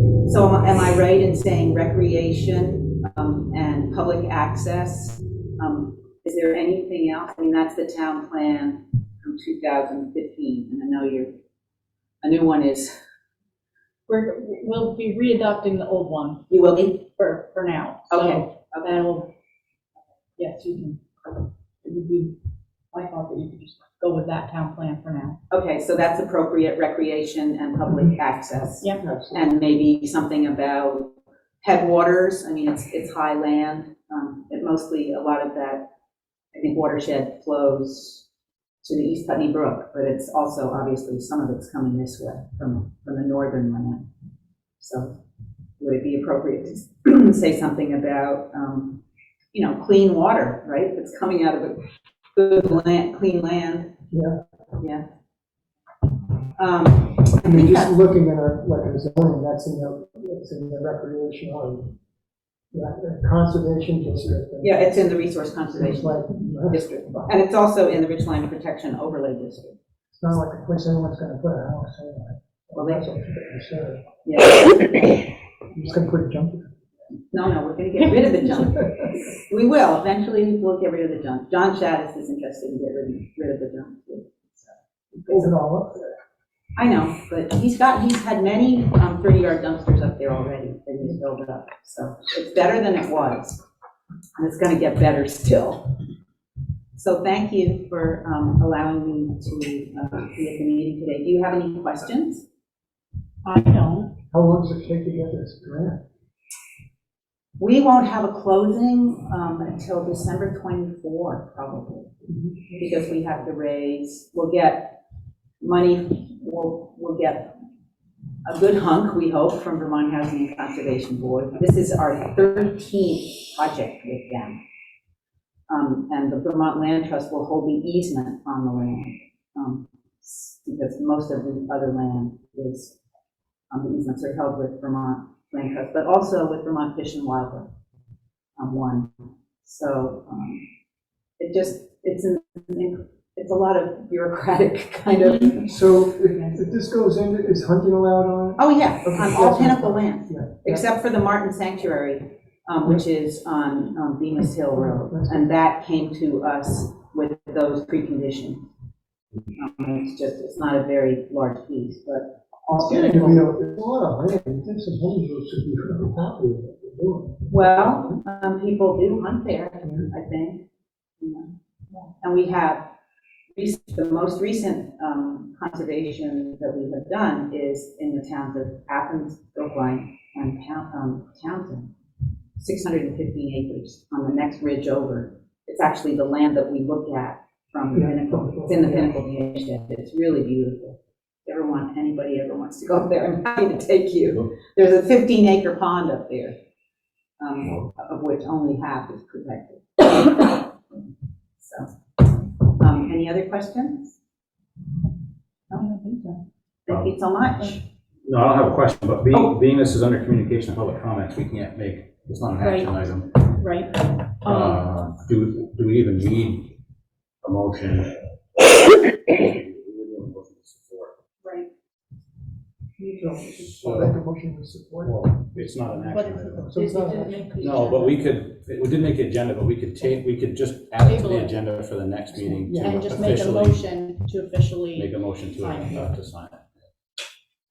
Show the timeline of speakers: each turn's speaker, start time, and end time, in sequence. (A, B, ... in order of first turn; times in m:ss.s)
0:00.2-0:11.3 A
0:12.2-0:12.9 A
0:14.1-0:16.4 B
0:16.5-0:17.0 A
0:17.2-0:19.3 B
0:18.1-0:18.9 A
0:20.4-0:21.0 B
0:21.8-0:22.3 B
0:22.9-0:25.4 B
0:25.5-0:35.9 A
0:29.0-0:29.5 C
0:36.5-0:38.2 A
0:38.8-0:44.0 A
0:44.8-0:45.2 A
0:45.8-0:49.0 A
0:49.5-0:51.8 A
0:52.3-0:53.9 A
0:54.1-0:54.4 C
0:54.8-0:55.0 A
0:56.6-0:57.9 A
0:57.4-1:01.9 C
1:02.7-1:07.3 C
1:04.6-1:09.8 A
1:10.1-1:14.0 C
1:12.7-1:13.0 A
1:14.2-1:15.9 A
1:15.8-1:16.7 C
1:17.3-1:24.7 A
1:18.6-1:19.1 C
1:25.2-1:26.0 C
1:25.3-1:26.2 A
1:26.8-1:33.6 A
1:34.4-1:35.8 A
1:36.9-1:42.4 A
1:43.4-1:44.1 B
1:44.3-1:46.0 C
1:47.6-1:52.1 A
1:52.3-1:52.8 C
1:52.8-1:55.0 A
1:55.6-1:57.5 A
1:58.4-2:04.6 A
2:05.7-2:13.0 A
2:13.7-2:17.7 A
2:18.6-2:19.1 A
2:19.6-2:20.6 A
2:21.4-2:25.7 A
2:25.2-2:25.5 B
2:25.6-2:30.8 C
2:28.6-2:38.7 A
2:34.7-2:35.4 C
2:39.5-2:43.5 A
2:42.7-2:48.2 C
2:47.5-2:50.6 A
2:49.8-2:50.1 C
2:51.2-2:51.5 A
2:52.2-2:52.8 A
2:53.5-3:01.9 A
3:02.6-3:16.6 A
3:07.9-3:09.1 C
3:17.4-3:20.7 A
3:21.6-3:21.9 A
3:22.7-3:24.1 A
3:25.7-3:26.4 B
3:26.9-3:27.8 A
3:28.2-3:33.5 D
3:32.6-3:32.9 B
3:33.5-3:34.8 B
3:34.4-3:36.7 D
3:37.4-3:38.6 D
3:39.2-3:41.1 D
3:41.4-3:41.7 B
3:43.1-3:45.3 C
3:43.5-3:44.1 D
3:45.0-3:46.7 D
3:46.1-3:48.1 B
3:46.6-3:47.9 C
3:47.6-3:53.8 D
3:51.0-3:51.6 B
3:52.6-3:53.1 C
3:52.8-3:56.2 B
3:54.9-3:56.6 D